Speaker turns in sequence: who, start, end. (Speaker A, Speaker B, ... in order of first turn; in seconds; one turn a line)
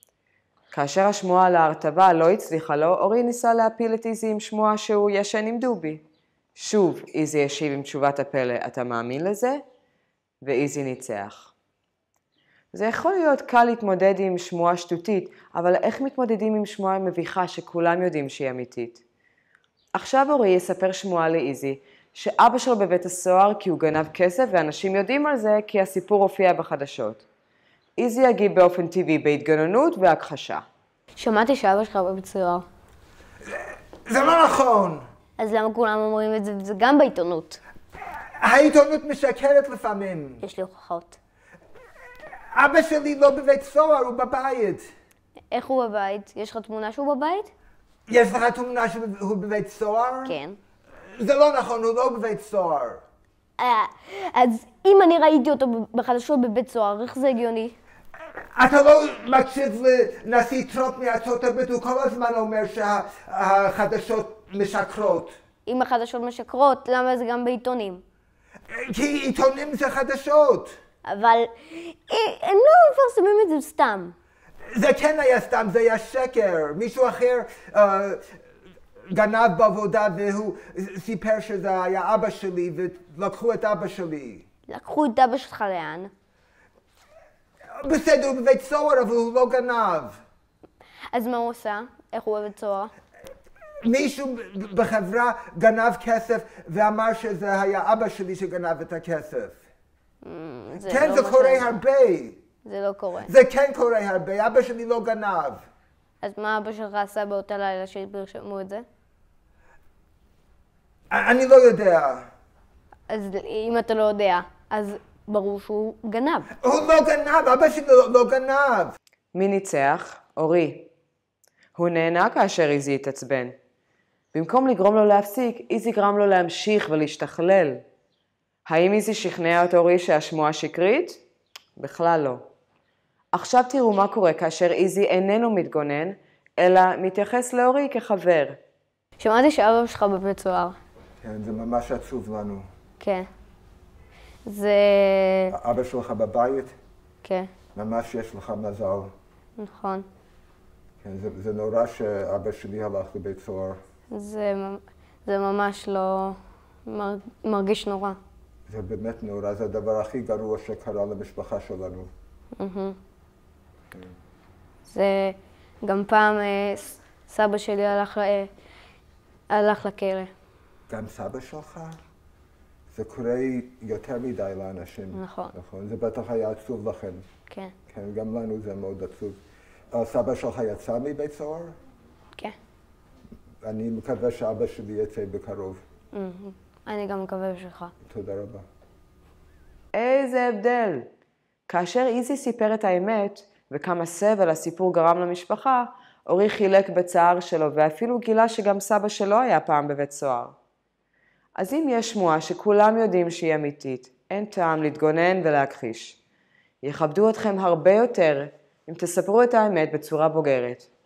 Speaker A: 0.7-6.0
Speaker A: 6.5-9.6
Speaker A: 10.4-11.5
Speaker A: 12.7-19.0
Speaker A: 19.9-27.2
Speaker A: 28.0-30.6
Speaker B: 31.2-32.6
Speaker C: 34.0-35.0
Speaker B: 35.4-37.6
Speaker C: 38.4-40.4
Speaker B: 40.4-41.2
Speaker C: 42.5-44.9
Speaker B: 45.5-47.5
Speaker C: 48.1-50.3
Speaker B: 50.2-50.6
Speaker C: 51.1-53.0
Speaker B: 53.6-57.8
Speaker C: 58.5-65.3
Speaker B: 65.7-68.0
Speaker C: 68.7-70.7
Speaker B: 71.0-74.1
Speaker C: 74.7-78.2
Speaker C: 79.1-84.4
Speaker B: 84.7-86.1
Speaker C: 87.7-90.2
Speaker B: 91.1-92.9
Speaker C: 93.8-99.6
Speaker B: 100.2-101.8
Speaker C: 100.8-102.4
Speaker B: 102.6-103.3
Speaker C: 103.2-105.6
Speaker B: 106.2-108.8
Speaker C: 111.1-112.3
Speaker B: 113.1-116.5
Speaker C: 116.6-118.9
Speaker A: 119.3-120.9
Speaker A: 121.7-123.5
Speaker A: 124.3-127.8
Speaker A: 128.7-131.2
Speaker A: 131.8-132.4
Speaker A: 133.3-138.6
Speaker B: 139.2-140.8
Speaker C: 141.2-142.7
Speaker B: 143.0-143.3
Speaker B: 144.4-145.5
Speaker C: 145.5-146.7
Speaker B: 147.2-147.5
Speaker C: 147.7-149.1
Speaker B: 149.6-150.1
Speaker C: 151.0-153.8
Speaker B: 154.1-158.2
Speaker C: 158.7-162.1
Speaker B: 162.6-163.0
Speaker B: 164.8-168.5
Speaker B: 169.5-170.3
Speaker C: 170.9-172.0
Speaker C: 172.9-177.2
Speaker B: 175.1-175.5
Speaker B: 177.5-177.7
Speaker C: 177.9-179.4
Speaker C: 179.9-181.7
Speaker C: 183.6-185.8
Speaker B: 186.1-187.9
Speaker C: 188.1-188.6
Speaker A: 189.9-191.1
Speaker A: 191.7-200.5
Speaker A: 201.6-206.2
Speaker A: 206.8-210.9